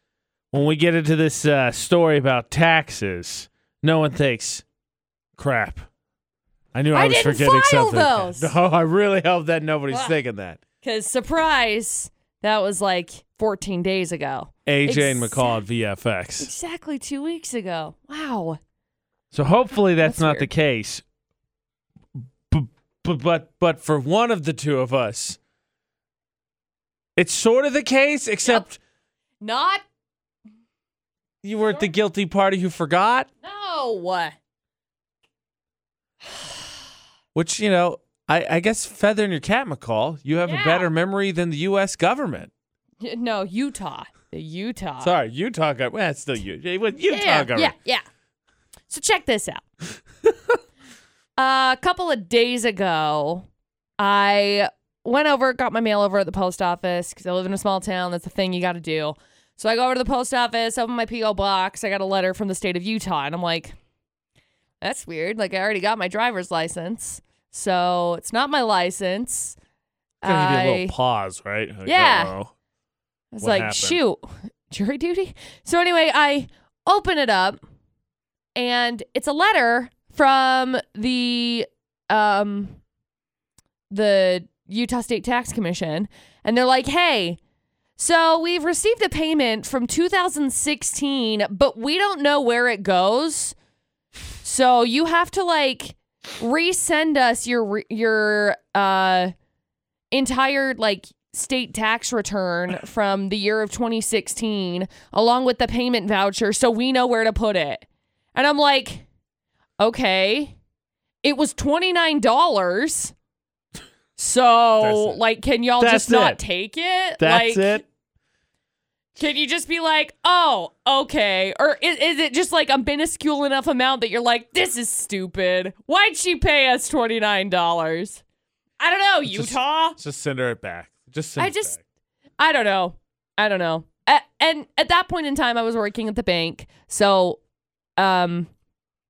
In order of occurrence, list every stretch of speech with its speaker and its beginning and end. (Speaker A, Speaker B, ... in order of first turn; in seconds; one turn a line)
Speaker A: 0.5-4.6
Speaker A: 5.4-5.9
Speaker A: 6.7-10.6
Speaker B: 6.9-8.5
Speaker B: 9.9-10.2
Speaker B: 10.8-15.6
Speaker A: 14.7-16.5
Speaker B: 16.4-18.6
Speaker A: 19.3-21.0
Speaker B: 20.0-20.5
Speaker A: 22.2-25.4
Speaker A: 27.2-28.8
Speaker B: 29.4-29.8
Speaker A: 31.4-33.3
Speaker B: 33.4-34.3
Speaker A: 37.3-42.5
Speaker B: 40.5-40.9
Speaker B: 43.0-45.1
Speaker A: 45.0-47.7
Speaker B: 47.1-48.0
Speaker B: 48.9-49.6
Speaker B: 51.4-53.5
Speaker B: 54.0-63.7
Speaker B: 64.8-69.5
Speaker B: 70.2-70.9
Speaker A: 70.2-72.5
Speaker B: 71.8-72.3
Speaker B: 73.3-77.6
Speaker A: 73.4-74.0
Speaker B: 78.5-82.8
Speaker B: 83.9-87.4
Speaker B: 88.0-93.5
Speaker B: 94.4-99.3
Speaker B: 100.1-107.8
Speaker B: 108.3-109.0
Speaker B: 109.8-110.5
Speaker B: 111.2-113.1
Speaker B: 114.2-117.8
Speaker A: 114.8-115.2
Speaker A: 115.8-116.4
Speaker A: 117.2-117.8
Speaker B: 119.2-128.2
Speaker B: 128.8-130.0
Speaker A: 129.3-131.8
Speaker B: 131.4-131.7
Speaker B: 132.4-137.4
Speaker B: 138.0-138.5